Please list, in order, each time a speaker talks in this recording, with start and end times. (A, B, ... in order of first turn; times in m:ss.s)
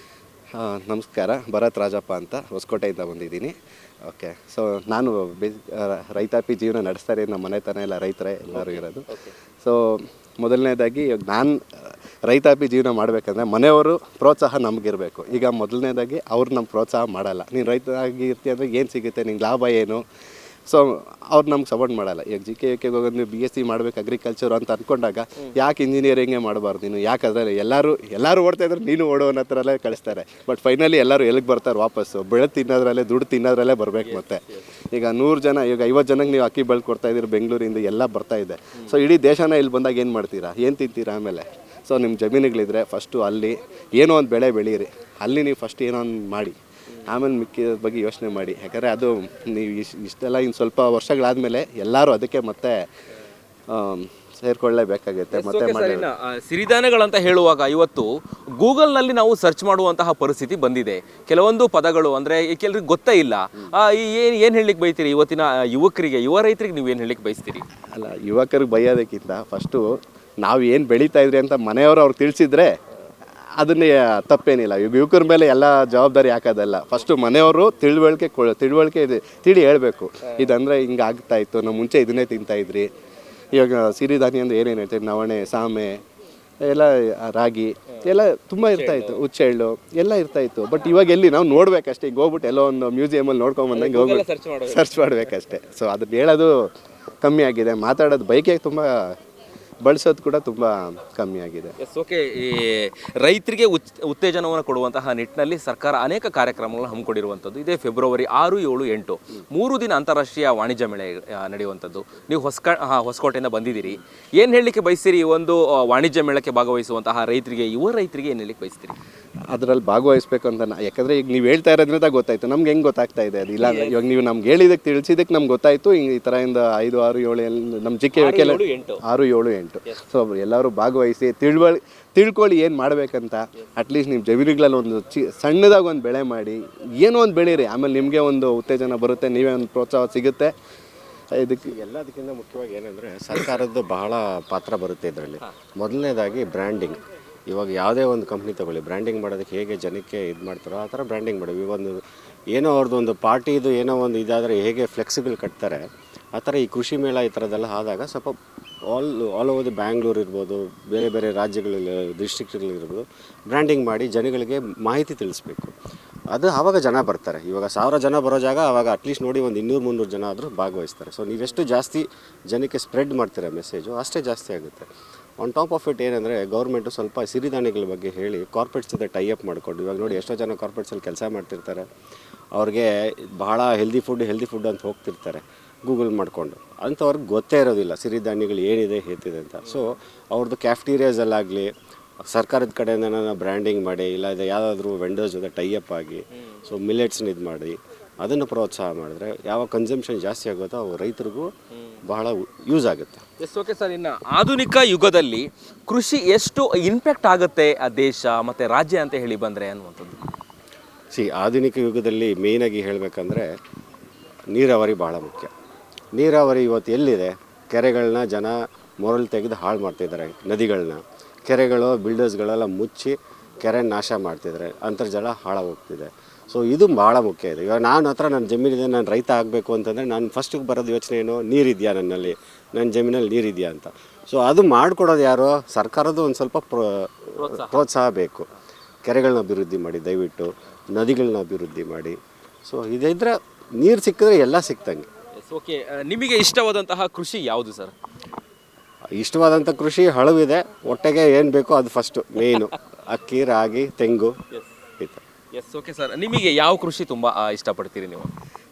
0:00.6-0:03.5 A
0:04.0-0:09.1 A
0:08.5-0:09.3 B
0:09.6-0:11.6 A
0:12.3-0:20.0 A
0:20.7-0:52.8 A
0:34.0-0:34.6 B
0:53.7-0:56.1 A
0:55.3-1:07.6 B
1:07.9-1:12.8 A
1:13.6-1:22.9 A
1:23.5-1:26.0 A
1:26.6-1:36.7 A
1:28.7-1:29.2 B
1:33.7-1:34.9 B
1:37.2-1:39.1 A
1:39.8-1:41.7 A
1:41.8-1:58.9 B
1:59.5-2:20.5 A
2:03.6-2:04.0 B
2:08.2-2:09.0 B
2:21.4-2:21.7 A
2:21.6-2:32.0 C
2:32.5-2:35.8 C
2:36.3-2:38.3 C
2:38.9-2:45.7 C
2:46.3-2:54.9 C
2:55.4-3:01.8 C
3:02.5-3:11.7 C
3:12.2-3:21.5 C
3:22.0-3:23.2 C
3:23.4-3:30.2 B
3:31.1-3:33.5 C
3:34.5-3:35.5 C
3:36.1-3:58.5 C
3:57.4-3:57.8 B
3:59.0-4:05.0 C
4:05.4-4:07.9 B
4:09.2-4:14.3 C
4:15.5-4:18.3 B